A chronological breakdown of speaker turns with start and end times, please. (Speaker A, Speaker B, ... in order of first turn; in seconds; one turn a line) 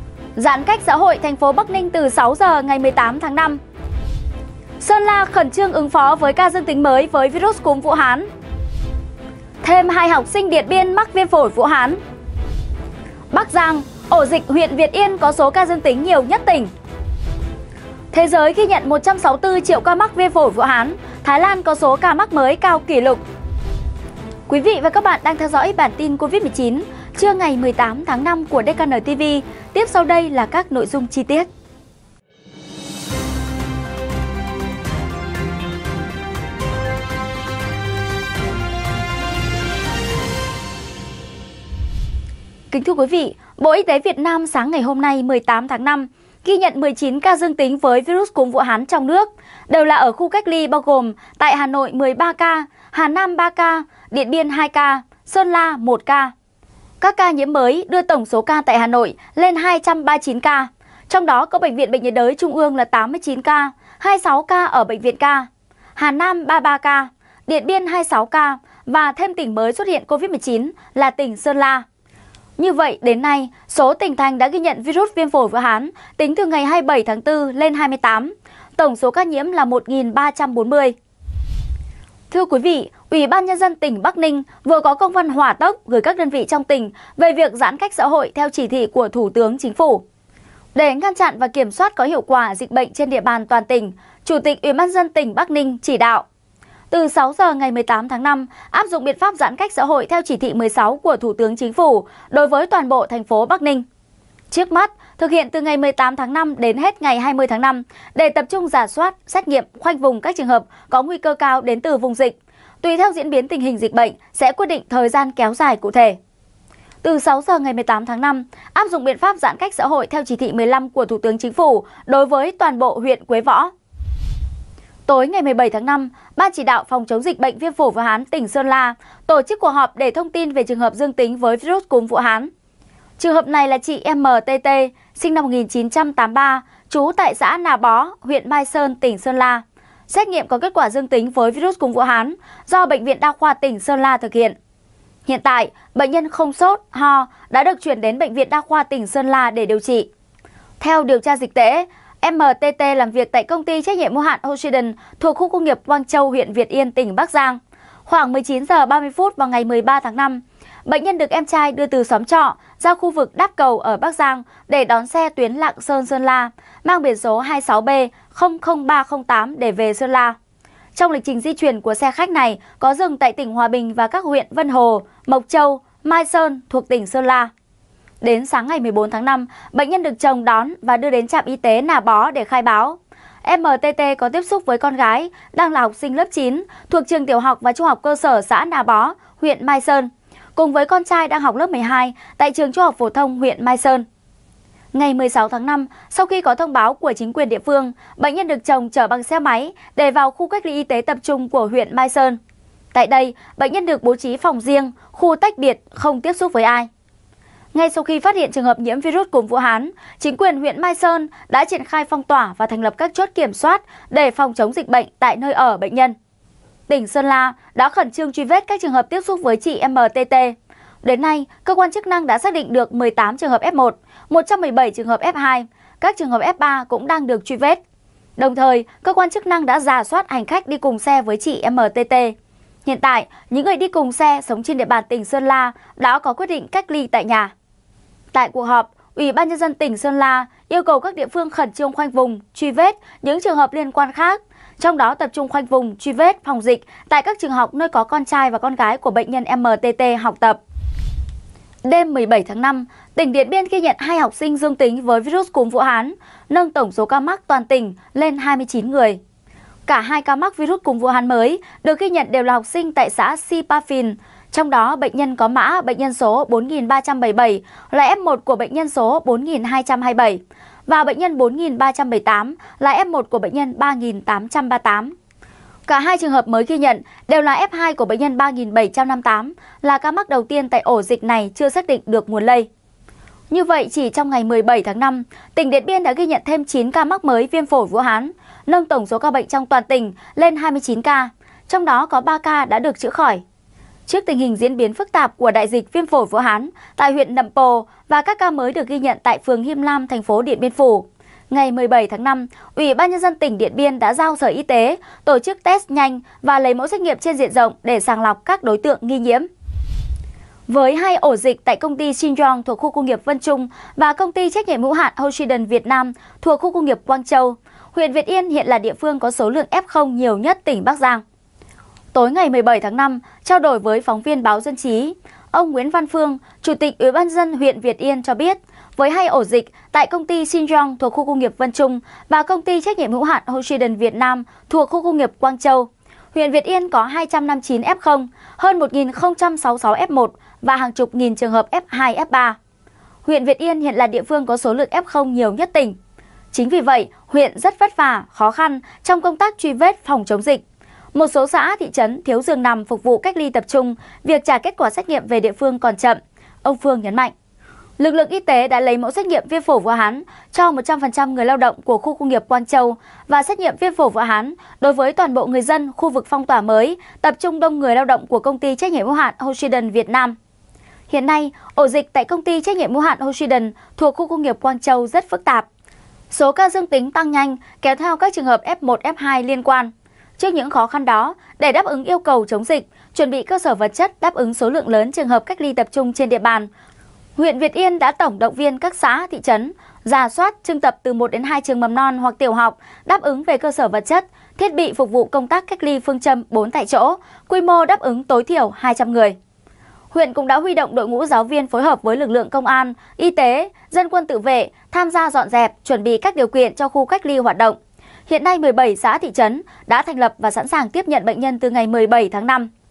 Speaker A: 0.4-3.6
Speaker A: 4.8-8.3
Speaker A: 9.6-12.0
Speaker A: 13.3-16.7
Speaker A: 18.1-23.2
Speaker A: 24.5-31.5
Speaker A: 42.7-56.3
Speaker A: 57.0-71.8
Speaker A: 72.6-81.0
Speaker A: 82.3-90.0
Speaker A: 90.8-96.2
Speaker A: 96.9-103.8
Speaker A: 104.5-116.2
Speaker A: 117.0-123.7
Speaker A: 125.1-132.5
Speaker A: 133.2-144.6
Speaker A: 145.3-150.1
Speaker A: 150.8-170.4
Speaker A: 171.0-177.5
Speaker A: 178.2-194.1
Speaker A: 194.9-202.4
Speaker A: 202.9-206.9
Speaker A: 207.7-216.2
Speaker A: 216.9-227.8
Speaker A: 228.4-237.5
Speaker A: 238.3-250.6
Speaker A: 251.8-259.2
Speaker A: 259.9-275.1
Speaker A: 275.9-282.7
Speaker A: 283.5-293.4
Speaker A: 294.1-309.5
Speaker A: 310.7-321.2
Speaker A: 322.1-342.6
Speaker A: 343.2-346.0
Speaker A: 346.5-350.6
Speaker A: 351.1-357.3
Speaker A: 358.0-370.4
Speaker A: 371.1-375.7
Speaker A: 376.3-386.7
Speaker A: 387.4-399.4
Speaker A: 400.1-412.7